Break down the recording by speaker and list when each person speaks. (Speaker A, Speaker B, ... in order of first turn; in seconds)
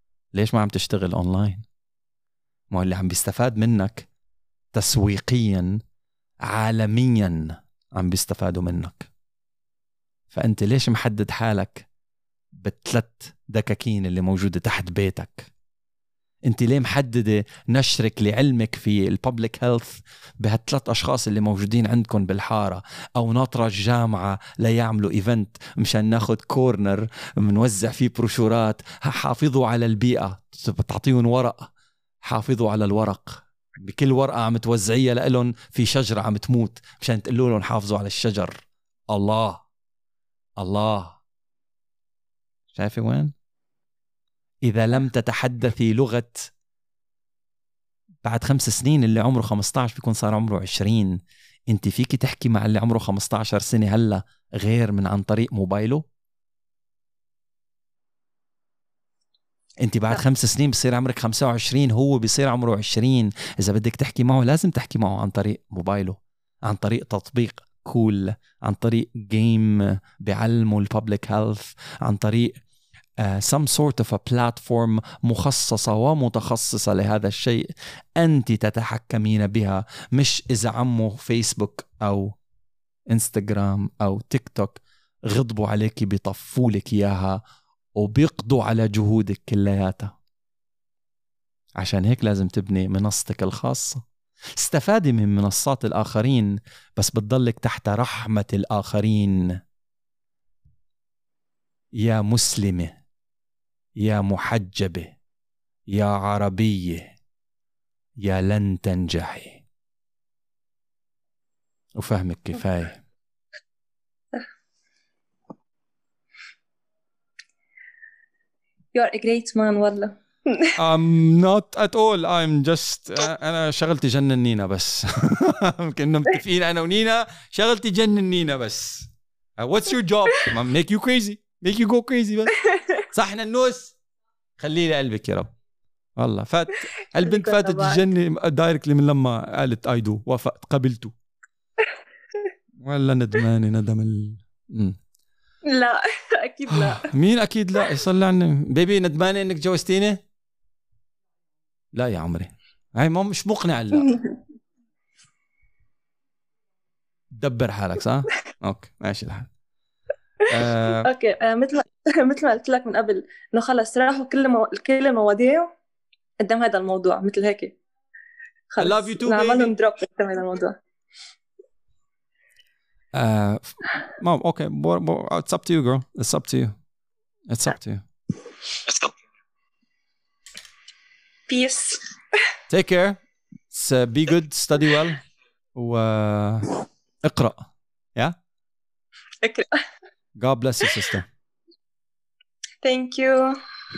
Speaker A: 0.3-1.6, 2.7-4.1, 4.7-5.8, 6.4-9.1, 10.3-11.9, 12.5-15.5, 16.4-31.7, 32.2-39.6, 40.6-41.2, 42.7-43.3, 44.6-46.5, 48.2-56.0, 59.8-72.6, 73.2-82.3, 83.1-87.4, 88.0-90.1, 91.8-94.0, 94.6-99.6, 102.0-103.0, 104.0-105.1, 105.9-107.1, 108.2-109.6, 112.0-113.0, 120.8-133.9, 134.6-135.5, 136.2-141.1, 142.8-145.0, 146.7-150.2, 151.9-154.2, 157.3-159.5, 160.5-161.1, 168.8-169.7, 173.1-176.7, 177.5-178.0, 182.7-185.2, 185.7-187.6, 190.4-191.3
Speaker B: 118.9-120.7, 137.1-138.1, 145.7-147.1, 161.0-165.7, 166.4-167.7, 168.7-170.8, 181.5-182.0, 189.4-189.8, 192.8-193.6